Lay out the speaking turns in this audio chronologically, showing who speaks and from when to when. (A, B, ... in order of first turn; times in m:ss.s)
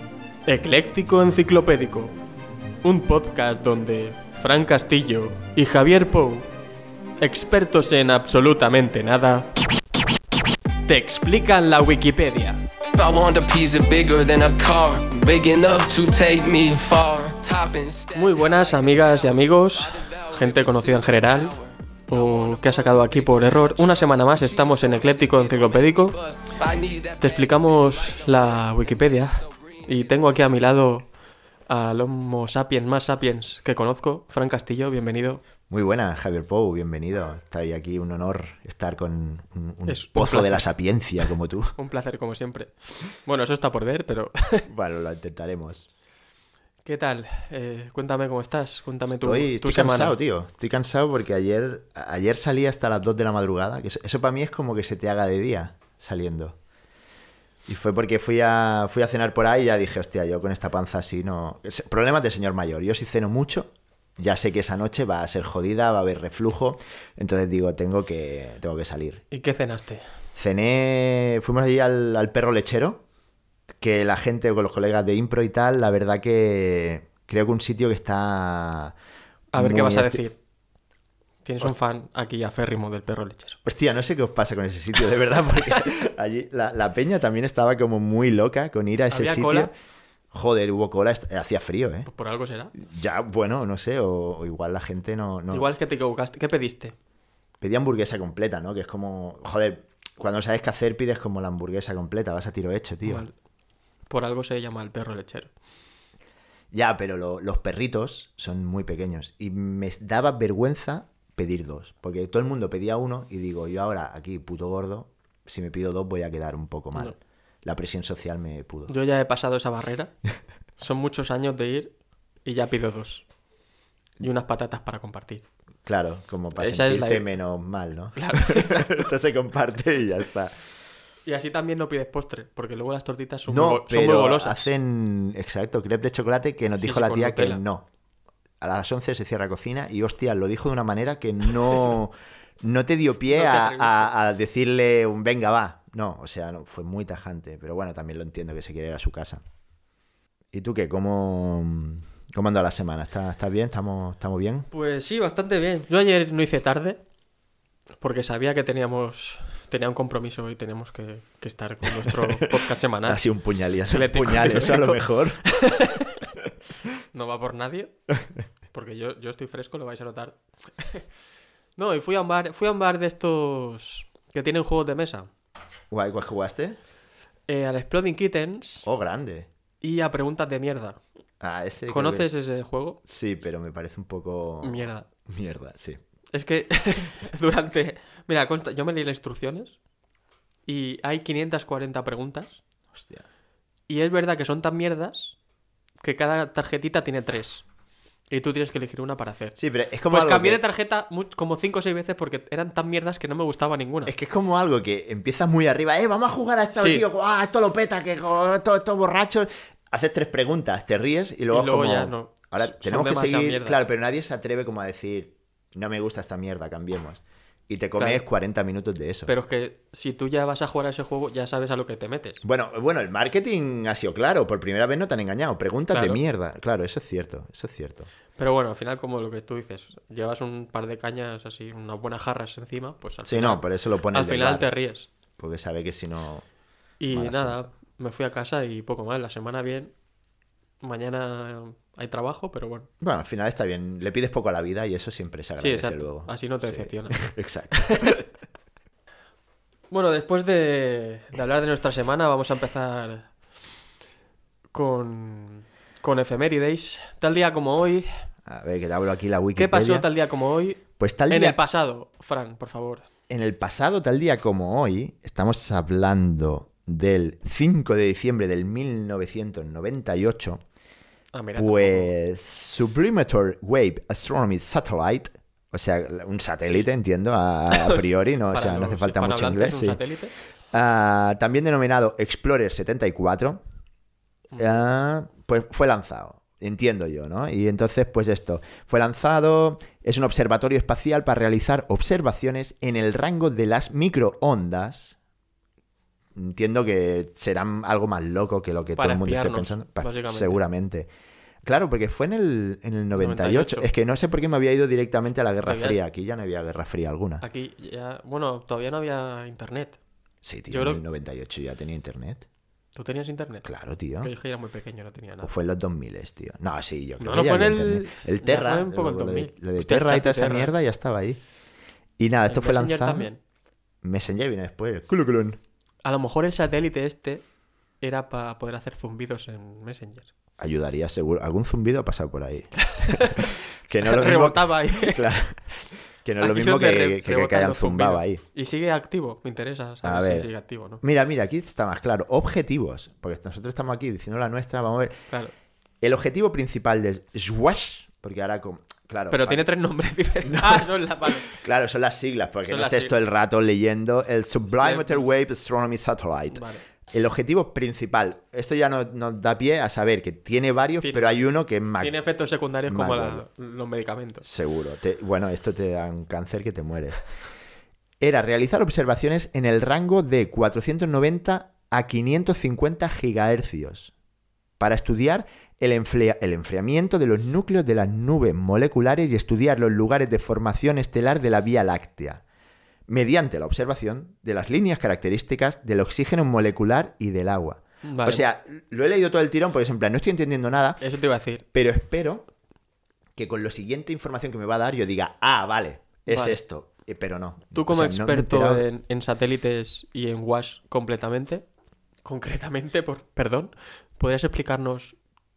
0:00.4-0:02.1 A
0:02.8-0:06.5 A
0:07.2-0:09.5 A
0:10.8-0:12.6 A
0:12.9-0:30.1 B
0:18.1-0:21.5 A
0:22.1-0:26.2 A
0:27.2-0:31.1 A
0:31.7-0:35.4 A
0:35.7-0:41.8 C
0:39.9-0:40.6 A
0:41.8-0:44.6 A
0:44.7-0:45.9 C
0:46.8-0:50.2 A
0:49.2-0:56.6 C
0:57.7-1:09.2 C
1:09.3-1:10.0 A
1:10.4-1:13.0 C
1:13.8-1:19.0 C
1:19.5-1:20.4 A
1:19.5-1:20.2 C
1:21.4-1:23.6 A
1:23.6-1:29.7 C
1:29.1-1:29.7 A
1:30.3-1:32.1 C
1:32.1-1:32.7 A
1:32.7-1:35.7 C
1:35.5-1:36.9 A
1:37.6-1:43.2 C
1:43.0-1:43.3 A
1:44.1-1:45.5 A
1:46.7-1:58.9 C
1:58.9-2:00.1 A
2:00.8-2:03.2 A
2:04.2-2:05.4 A
2:05.8-2:10.5 C
2:06.6-2:07.3 A
2:08.2-2:09.0 A
2:11.2-2:14.7 A
2:13.5-2:17.9 C
2:16.8-2:17.6 A
2:18.6-2:29.4 C
2:23.3-2:24.1 A
2:30.5-2:34.7 C
2:34.7-2:37.0 A
2:38.0-2:43.2 A
2:42.0-2:42.5 C
2:43.0-2:45.5 C
2:43.8-2:46.3 A
2:47.1-2:47.9 A
2:48.7-2:51.0 A
2:51.8-2:55.3 A
2:55.9-2:56.8 C
2:57.5-2:58.9 A
2:58.8-2:59.5 C
2:59.8-3:01.0 A
3:01.4-3:02.3 C
3:01.9-3:03.0 A
3:03.0-3:06.0 C
3:04.6-3:05.0 A
3:06.3-3:09.8 A
3:10.7-3:12.6 A
3:13.0-3:13.2 C
3:13.9-3:15.4 A
3:16.0-3:17.6 A
3:18.3-3:19.6 A
3:19.6-3:20.6 C
3:20.1-3:24.1 A
3:24.0-3:39.3 C
3:26.7-3:27.0 A
3:31.5-3:33.8 A
3:39.3-3:42.4 A
3:42.4-3:48.1 C
3:45.9-3:46.2 A
3:48.4-3:55.1 A
3:53.2-3:54.7 C
3:55.4-3:56.4 C
3:57.0-3:59.9 A
3:57.1-3:57.7 C
4:00.8-4:02.9 A
4:03.0-4:08.2 C
4:05.6-4:07.2 A
4:07.7-4:08.2 A
4:09.9-4:13.3 A
4:14.7-4:18.1 A
4:18.4-4:20.1 C
4:19.6-4:23.0 A
4:21.0-4:21.6 C
4:23.3-4:30.6 C
4:31.3-4:32.1 A
4:31.6-4:40.0 C
4:37.7-4:40.3 A
4:40.7-4:43.6 C
4:44.5-4:44.8 A
4:44.6-4:55.2 C
4:56.3-5:01.1 C
4:59.0-5:00.6 A
5:01.6-5:07.4 C
5:03.1-5:03.9 A
5:05.6-5:06.0 A
5:07.4-5:10.0 A
5:10.4-5:12.4 C
5:10.7-5:11.0 A
5:12.9-5:13.7 A
5:13.6-5:14.3 C
5:14.2-5:15.5 A
5:15.4-5:21.4 C
5:17.2-5:20.7 A
5:22.2-5:23.3 C
5:22.5-5:23.4 A
5:24.0-5:25.6 C
5:26.0-5:27.4 A
5:28.0-5:30.3 A
5:30.6-5:35.7 C
5:32.8-5:35.4 A
5:36.2-5:38.4 C
5:36.4-5:41.0 A
5:40.0-5:40.5 C
5:41.0-5:45.2 C
5:46.0-5:49.7 C
5:49.3-5:51.6 A
5:50.4-6:02.2 C
5:52.6-5:53.1 A
5:54.7-5:55.3 A
5:56.5-5:56.8 A
6:01.0-6:01.3 A
6:02.0-6:04.4 A
6:02.9-6:03.4 C
6:04.4-6:07.2 C
6:08.2-6:14.1 C
6:14.8-6:22.4 C
6:23.1-6:31.0 C
6:28.0-6:28.4 A
6:31.0-6:31.6 A
6:31.7-6:32.5 C
6:33.4-6:38.9 C
6:36.3-6:36.6 A
6:37.7-6:41.6 A
6:42.2-6:45.2 A